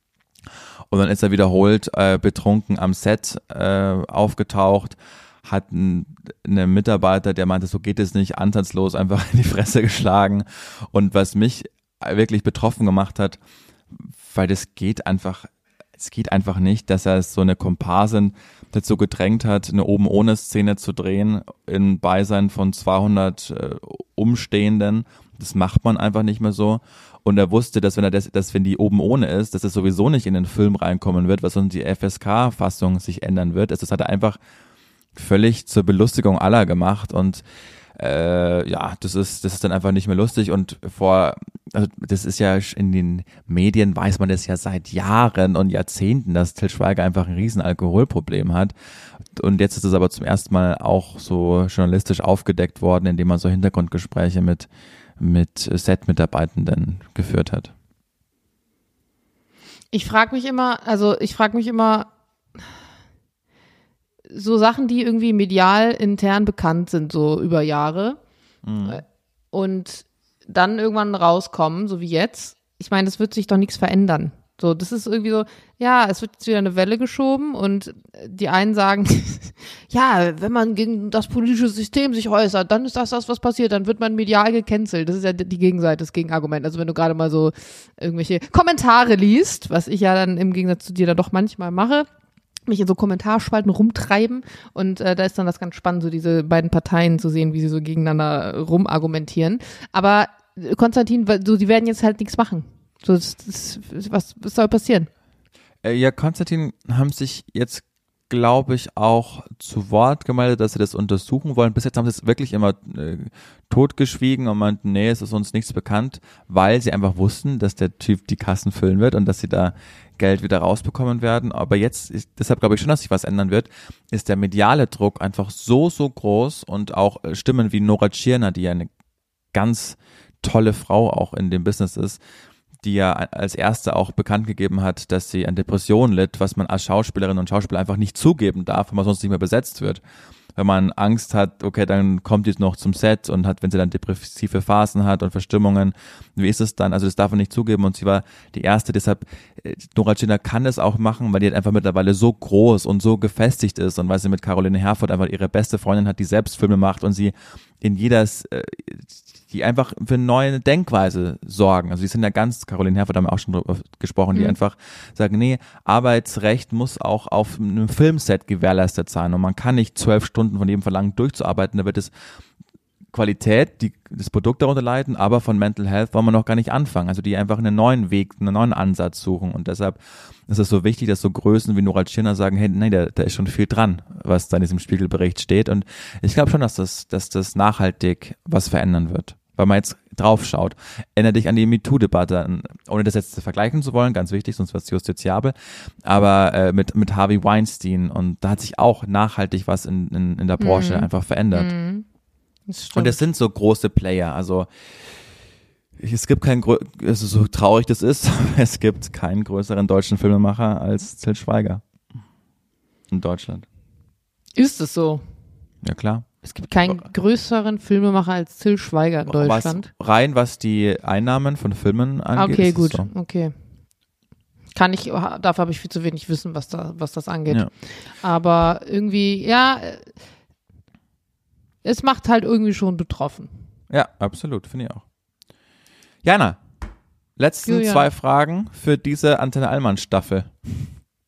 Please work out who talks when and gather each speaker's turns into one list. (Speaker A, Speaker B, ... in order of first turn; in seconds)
Speaker A: 0.9-13.4, 13.9-34.4, 35.2-37.4, 38.0-48.7, 49.4-54.7, 55.2-57.7, 68.6-69.0, 105.8-128.9, 129.5-132.2, 132.8-140.0, 140.6-172.1, 173.1-201.7, 202.9-204.7, 206.0-211.8, 213.1-213.7, 215.8-217.1, 219.3-223.1, 233.9-235.0, 236.2-236.6, 237.4-240.9
Speaker B: 59.9-62.1, 64.3-68.2, 68.8-92.1, 92.7-105.1, 200.6-202.1, 202.7-203.2, 214.6-215.2, 216.4-219.9, 222.4-223.5, 224.7-227.7, 228.2-230.1, 231.8-233.5, 237.7-238.1